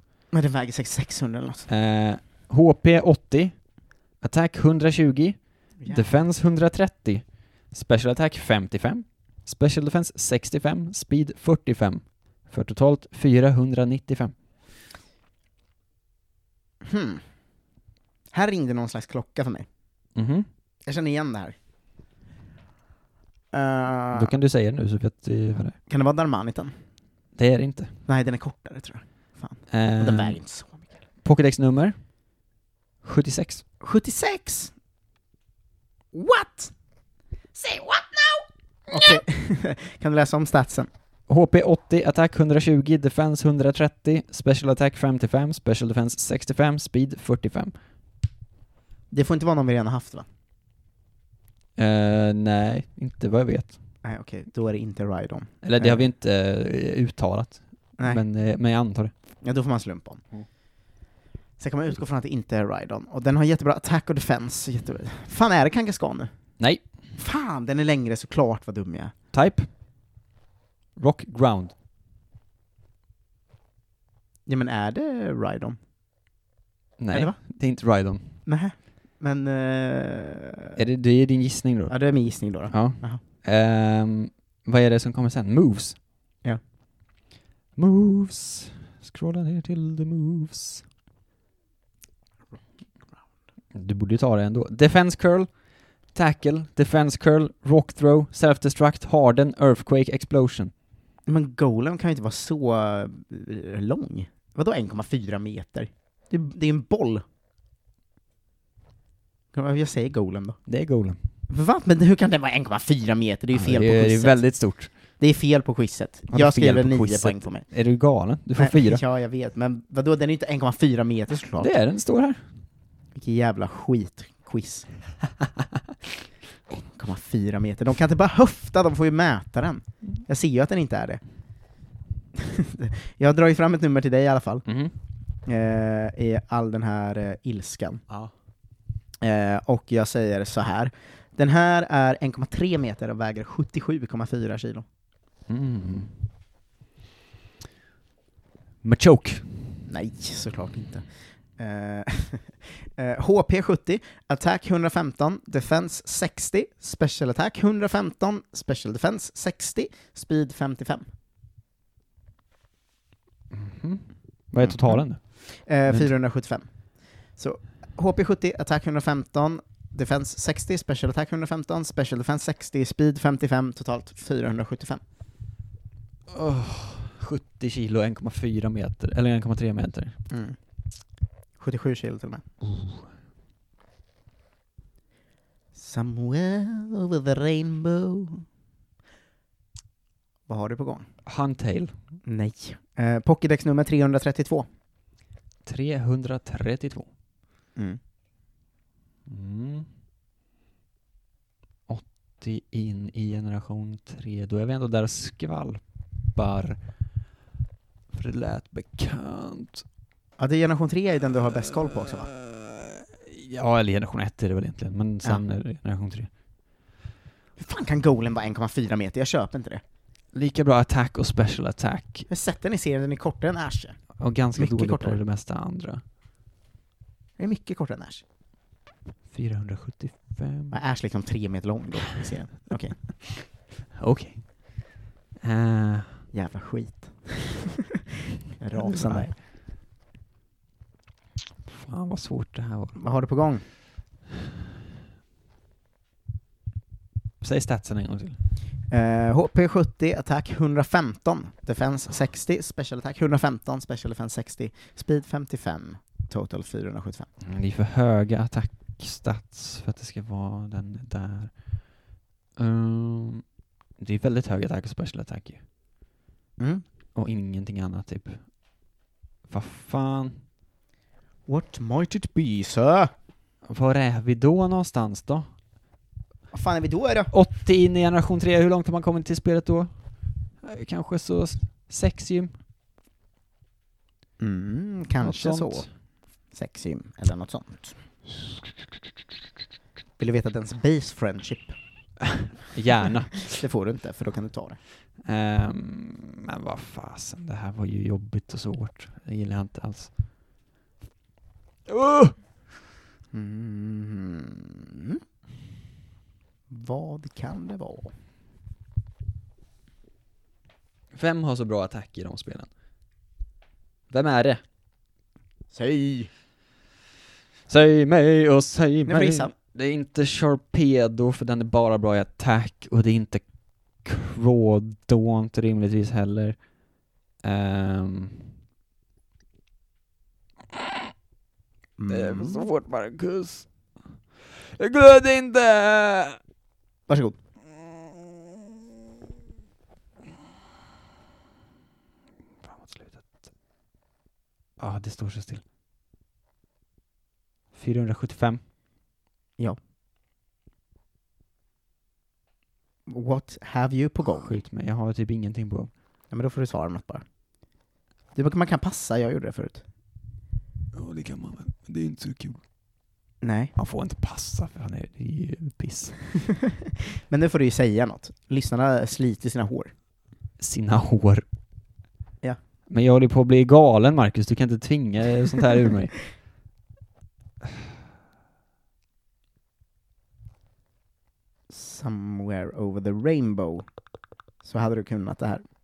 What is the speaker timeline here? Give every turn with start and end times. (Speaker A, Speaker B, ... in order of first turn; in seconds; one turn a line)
Speaker A: 0.3-1.7
Speaker B: 1.7-3.7
Speaker B: 4.2-14.3
Speaker A: 5.8-6.0
Speaker A: 16.8-17.2
Speaker A: 18.3-19.6
Speaker B: 20.1-20.5
Speaker A: 20.9-21.6
Speaker A: 23.5-24.3
Speaker B: 24.1-25.8
Speaker A: 25.9-26.7
Speaker B: 27.3-27.9
Speaker A: 28.1-30.9
Speaker B: 29.7-30.4
Speaker B: 31.2-31.9
Speaker B: 33.0-33.6
Speaker A: 33.8-34.7
Speaker A: 36.1-36.7
Speaker A: 37.5-40.9
Speaker B: 38.9-39.2
Speaker B: 41.3-47.7
Speaker A: 49.1-50.2
Speaker B: 51.8-53.8
Speaker A: 54.0-56.0
Speaker B: 55.6-59.1
Speaker A: 58.0-58.2
Speaker A: 59.4-60.2
Speaker A: 61.6-66.3
Speaker B: 66.6-66.8
Speaker A: 67.2-69.1
Speaker B: 69.3-69.7
Speaker B: 71.0-71.7
Speaker A: 74.5-75.8
Speaker B: 77.0-78.3
Speaker A: 77.1-77.4
Speaker A: 78.4-80.8
Speaker B: 80.8-86.0
Speaker A: 81.9-83.2
Speaker B: 87.8-90.8
Speaker B: 93.7-100.7
Speaker A: 101.3-107.2
Speaker A: 109.5-110.6
Speaker B: 110.7-111.2
Speaker A: 111.5-114.4
Speaker B: 113.5-114.9
Speaker A: 115.2-117.7
Speaker B: 116.3-119.0
Speaker A: 118.6-121.7
Speaker B: 121.6-122.4
Speaker A: 123.1-124.9
Speaker A: 126.7-131.2
Speaker A: 132.3-134.6
Speaker B: 134.6-134.9
Speaker A: 135.4-138.0
Speaker A: 139.2-144.8
Speaker B: 145.5-146.1
Speaker B: 148.8-149.6
Speaker A: 149.9-151.1
Speaker A: 151.6-161.0
Speaker B: 163.5-166.1
Speaker A: 164.6-166.7
Speaker A: 167.3-175.0
Speaker B: 176.3-180.2
Speaker A: 180.3-180.6
Speaker A: 181.6-182.4
Speaker B: 182.6-183.0
Speaker A: 185.7-188.4
Speaker A: 190.5-191.1
Speaker B: 191.2-191.9
Speaker A: 192.2-194.7
Speaker B: 195.6-197.1
Speaker B: 199.3-199.9
Speaker B: 201.9-206.8
Speaker B: 208.1-209.8
Speaker A: 210.4-212.3
Speaker B: 212.1-216.3
Speaker A: 217.6-219.8
Speaker B: 220.3-222.3
Speaker A: 222.3-224.0
Speaker B: 224.2-226.0
Speaker A: 224.6-225.2
Speaker A: 227.4-228.2
Speaker B: 229.3-230.8
Speaker A: 230.7-233.3
Speaker B: 233.9-236.2
Speaker A: 236.3-237.7
Speaker A: 238.5-239.3
Speaker B: 238.7-239.3
Speaker B: 241.7-243.0
Speaker A: 242.9-243.7
Speaker B: 247.4-248.4
Speaker A: 248.9-257.3
Speaker B: 257.4-261.9
Speaker B: 262.6-263.4
Speaker B: 264.0-265.6
Speaker A: 266.6-266.8
Speaker B: 267.1-268.4
Speaker B: 269.5-270.4
Speaker A: 271.5-273.1
Speaker B: 273.6-275.5
Speaker A: 276.5-277.3
Speaker B: 277.3-279.9
Speaker B: 280.6-282.5
Speaker A: 284.4-285.9
Speaker B: 285.2-285.9
Speaker A: 286.5-287.9
Speaker A: 290.2-291.7
Speaker B: 292.7-293.6
Speaker A: 293.3-294.8
Speaker B: 295.2-300.1
Speaker B: 301.9-302.4
Speaker A: 303.3-305.2
Speaker A: 306.7-308.1
Speaker B: 311.1-312.7
Speaker B: 314.1-314.6
Speaker A: 315.7-316.3
Speaker B: 317.7-326.7
Speaker A: 319.1-319.5
Speaker B: 327.4-328.5
Speaker B: 330.7-331.0
Speaker A: 332.0-332.7
Speaker B: 332.1-333.7
Speaker B: 334.5-336.4
Speaker A: 337.1-337.4
Speaker B: 342.6-343.4
Speaker B: 344.8-345.6
Speaker B: 347.7-348.6
Speaker A: 353.1-354.6
Speaker B: 354.2-355.9
Speaker A: 356.3-357.2
Speaker A: 358.3-359.8
Speaker B: 360.9-362.6
Speaker A: 363.4-363.7
Speaker B: 363.8-366.2
Speaker A: 366.5-369.9
Speaker B: 370.6-371.4
Speaker B: 372.9-376.3
Speaker A: 381.7-383.9
Speaker A: 384.6-385.6